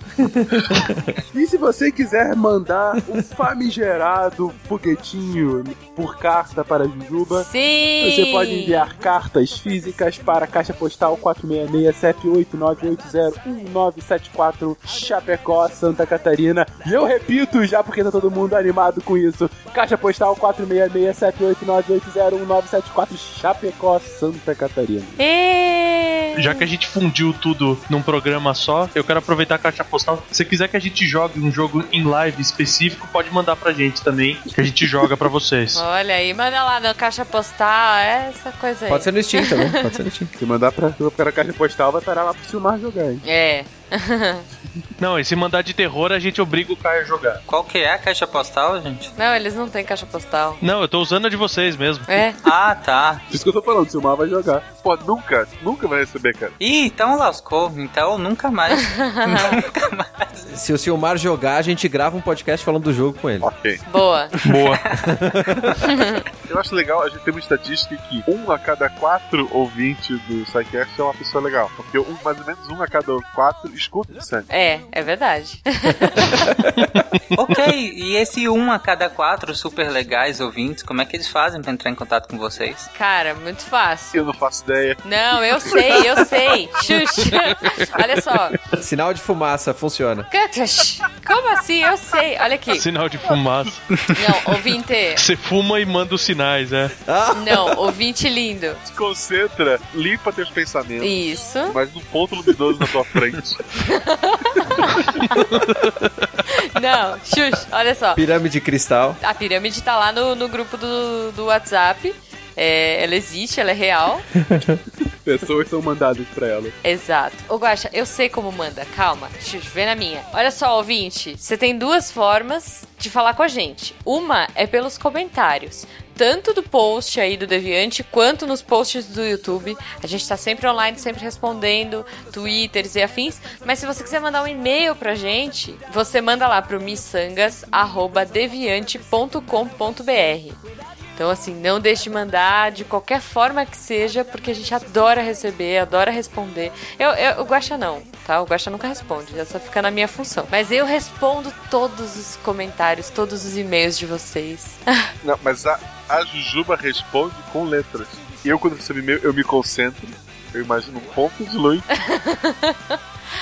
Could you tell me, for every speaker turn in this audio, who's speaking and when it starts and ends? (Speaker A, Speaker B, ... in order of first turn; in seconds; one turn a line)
Speaker A: 0.2-1.2
Speaker B: 1.3-7.5
Speaker C: 7.3-8.9
Speaker B: 8.0-25.2
Speaker C: 25.2-26.6
Speaker D: 26.4-35.8
Speaker C: 35.7-39.9
Speaker A: 38.9-40.3
Speaker B: 40.4-43.2
Speaker C: 43.2-44.5
Speaker D: 45.0-47.4
Speaker E: 47.5-49.1
Speaker C: 49.1-50.6
Speaker D: 50.6-52.1
Speaker C: 52.1-52.4
Speaker E: 52.4-53.2
Speaker B: 53.3-54.6
Speaker F: 54.8-56.5
Speaker E: 56.6-60.5
Speaker C: 58.9-59.5
Speaker A: 60.5-63.5
Speaker F: 63.4-63.8
Speaker C: 63.9-64.3
Speaker D: 64.4-64.8
Speaker E: 64.7-65.1
Speaker A: 65.0-65.7
Speaker C: 65.8-66.2
Speaker F: 66.5-74.5
Speaker C: 74.5-76.5
Speaker D: 76.8-77.5
Speaker E: 77.3-82.9
Speaker C: 82.9-84.2
Speaker F: 84.1-85.0
Speaker C: 85.0-88.5
Speaker F: 85.6-86.0
Speaker A: 88.8-90.3
Speaker C: 90.3-92.8
Speaker D: 92.7-93.8
Speaker C: 94.1-95.2
Speaker D: 95.2-96.9
Speaker A: 97.0-97.8
Speaker C: 97.3-98.8
Speaker F: 98.8-103.7
Speaker C: 101.0-101.7
Speaker C: 103.7-105.4
Speaker D: 105.3-106.2
Speaker C: 106.5-108.2
Speaker A: 108.1-109.2
Speaker C: 109.2-114.2
Speaker A: 114.5-114.8
Speaker B: 115.2-116.7
Speaker C: 116.8-140.6
Speaker C: 141.2-155.1
Speaker F: 155.2-161.9
Speaker C: 161.9-163.0